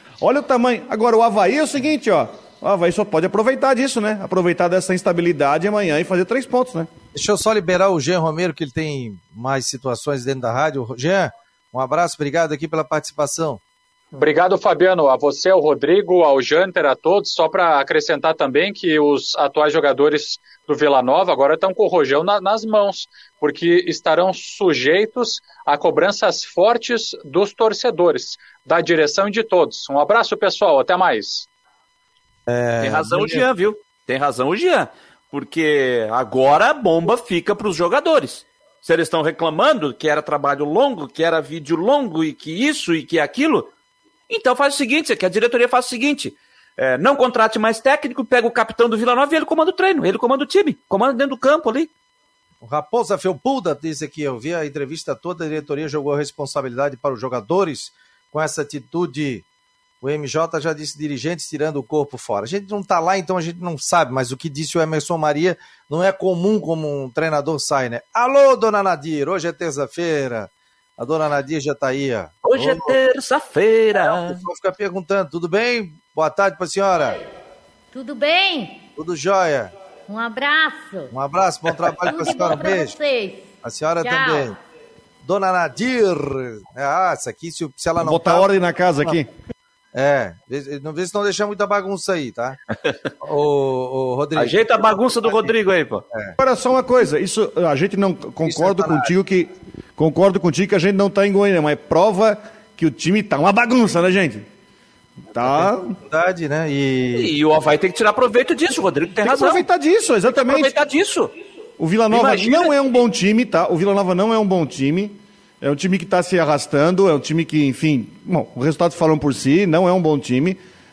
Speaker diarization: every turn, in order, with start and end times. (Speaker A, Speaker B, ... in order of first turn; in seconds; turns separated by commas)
Speaker A: 0.2-6.9, Speaker B: 7.1-13.6, Speaker C: 14.1-31.5, Speaker B: 32.5-33.4, Speaker D: 32.8-43.7, Speaker D: 44.3-51.9, Speaker B: 52.6-59.4, Speaker B: 60.0-73.0, Speaker D: 72.4-74.4, Speaker B: 74.0-77.2, Speaker E: 77.9-78.8, Speaker B: 79.0-79.7, Speaker E: 80.1-81.1, Speaker B: 81.1-83.0, Speaker E: 81.8-83.5, Speaker B: 83.6-84.5, Speaker E: 84.0-84.5, Speaker B: 85.2-88.5, Speaker A: 88.0-89.3, Speaker B: 89.9-92.6, Speaker B: 93.2-95.5, Speaker D: 94.3-96.0, Speaker A: 96.4-104.5, Speaker B: 98.4-99.1, Speaker A: 105.3-105.9, Speaker B: 105.5-107.4, Speaker D: 107.1-109.6, Speaker A: 109.2-110.7, Speaker D: 110.3-111.3, Speaker A: 111.8-120.6, Speaker D: 112.1-112.7